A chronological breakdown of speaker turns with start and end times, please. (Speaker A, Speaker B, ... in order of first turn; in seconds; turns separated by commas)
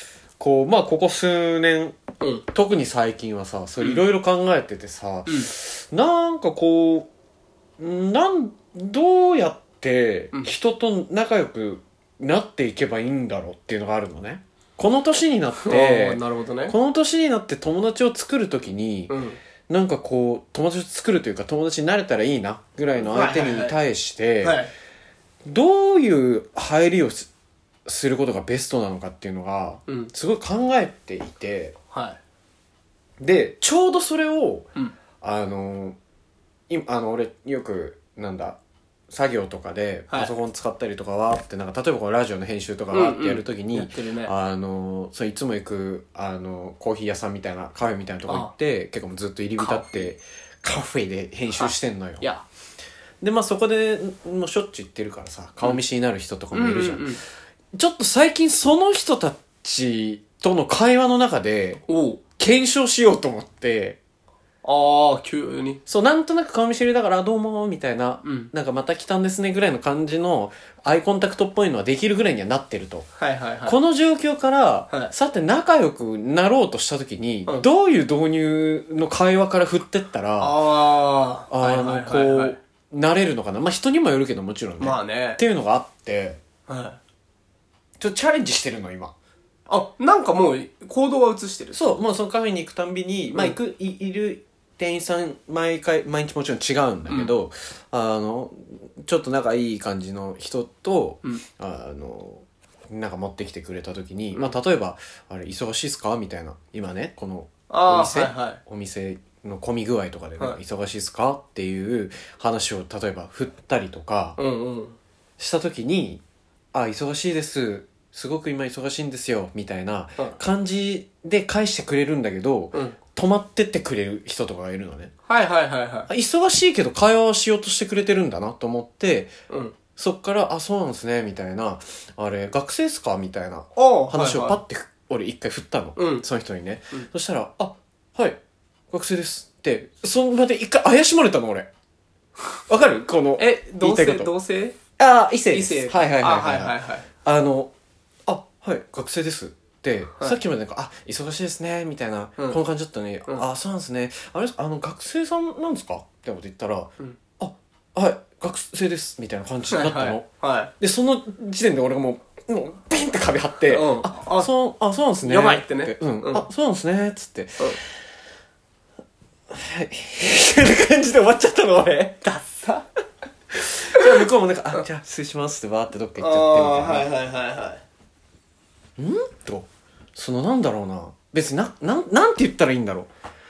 Speaker A: 0.4-2.0, Speaker B: 2.2-2.5, Speaker A: 2.5-7.1, Speaker B: 5.3-5.5, Speaker A: 7.8-19.2, Speaker B: 15.6-16.7, Speaker B: 19.1-19.4, Speaker A: 19.7-24.6, Speaker B: 23.0-23.8, Speaker B: 24.4-24.7, Speaker A: 25.4-27.3, Speaker A: 27.9-31.7, Speaker B: 29.9-30.1, Speaker B: 31.9-32.2, Speaker A: 33.2-34.7, Speaker A: 35.2-36.0, Speaker A: 36.7-38.6, Speaker A: 39.1-52.3, Speaker B: 42.9-44.3, Speaker B: 48.3-48.5, Speaker B: 49.6-50.1, Speaker B: 51.5-52.4, Speaker A: 53.2-57.2, Speaker B: 56.5-57.2, Speaker A: 57.7-61.8, Speaker B: 61.9-62.2, Speaker A: 62.4-64.0, Speaker B: 64.6-65.8, Speaker A: 65.9-73.1, Speaker B: 68.2-68.5, Speaker B: 73.2-73.8, Speaker A: 73.7-80.6, Speaker B: 80.4-82.6, Speaker A: 81.5-86.4, Speaker B: 84.8-85.4, Speaker B: 86.7-87.0, Speaker A: 88.0-89.1, Speaker B: 89.7-91.9, Speaker A: 91.7-114.4, Speaker B: 97.0-97.3, Speaker B: 107.7-108.6, Speaker B: 114.4-115.0, Speaker A: 115.4-116.2, Speaker A: 116.7-125.1, Speaker B: 125.3-126.1, Speaker A: 126.1-129.3, Speaker B: 129.5-129.8, Speaker A: 129.9-138.4, Speaker B: 133.7-134.6, Speaker B: 135.9-136.2, Speaker A: 138.9-141.7, Speaker A: 142.7-144.3, Speaker B: 143.4-144.8, Speaker A: 145.0-147.7, Speaker B: 145.5-147.1, Speaker A: 148.2-160.2, Speaker B: 159.7-160.7, Speaker A: 160.8-167.8, Speaker B: 163.7-164.5, Speaker B: 165.2-166.4, Speaker A: 169.5-172.2, Speaker B: 172.2-172.8, Speaker A: 173.5-177.1, Speaker B: 176.2-177.8, Speaker A: 179.0-183.1